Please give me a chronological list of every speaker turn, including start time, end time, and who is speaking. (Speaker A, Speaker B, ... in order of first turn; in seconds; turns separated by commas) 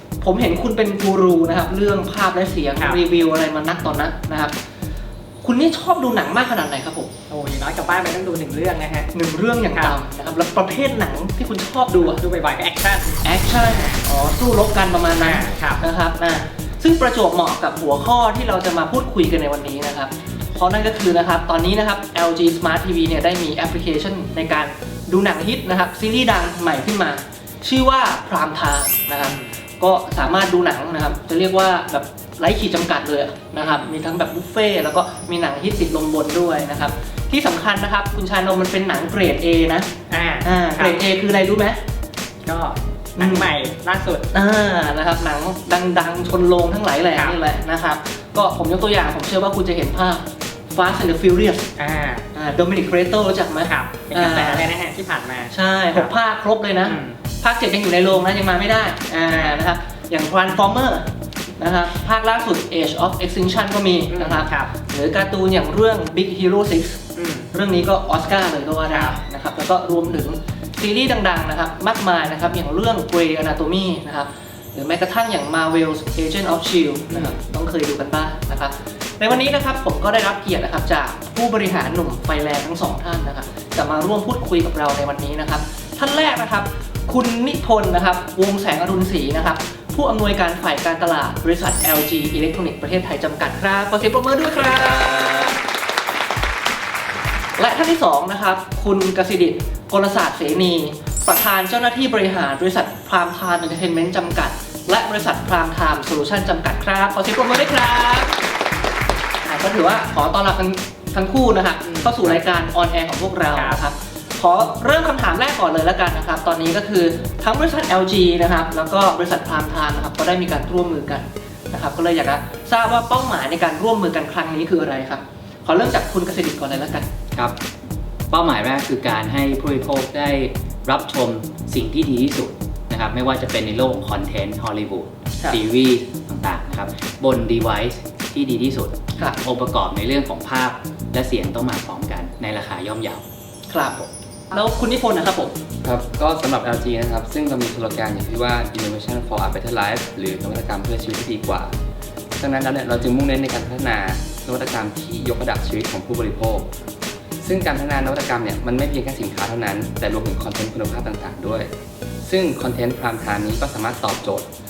Speaker A: 0.2-4.5, Speaker A: 5.4-7.1, Speaker B: 7.3-9.1, Speaker A: 9.1-12.2, Speaker B: 12.0-13.2, Speaker A: 13.2-39.9, Speaker B: 15.2-15.8, Speaker B: 29.2-29.5, Speaker B: 33.5-33.9, Speaker B: 40.1-41.0, Speaker A: 40.4-41.8, Speaker B: 42.4-44.2, Speaker A: 43.2-43.5, Speaker A: 44.3-51.7, Speaker B: 51.8-52.2, Speaker A: 52.3-54.7, Speaker B: 53.6-56.1, Speaker A: 55.5-95.6, Speaker B: 56.8-57.2, Speaker B: 64.1-64.7, Speaker B: 67.2-67.5, Speaker B: 68.9-69.2, Speaker A: 97.6-108.4, Speaker A: 109.4-127.0, Speaker B: 111.8-112.3, Speaker B: 113.5-113.8, Speaker C: 128.3-143.2, Speaker A: 143.7-145.6, Speaker D: 145.8-151.7, Speaker D: 152.4-156.7, Speaker D: 157.4-161.7, Speaker D: 162.2-164.5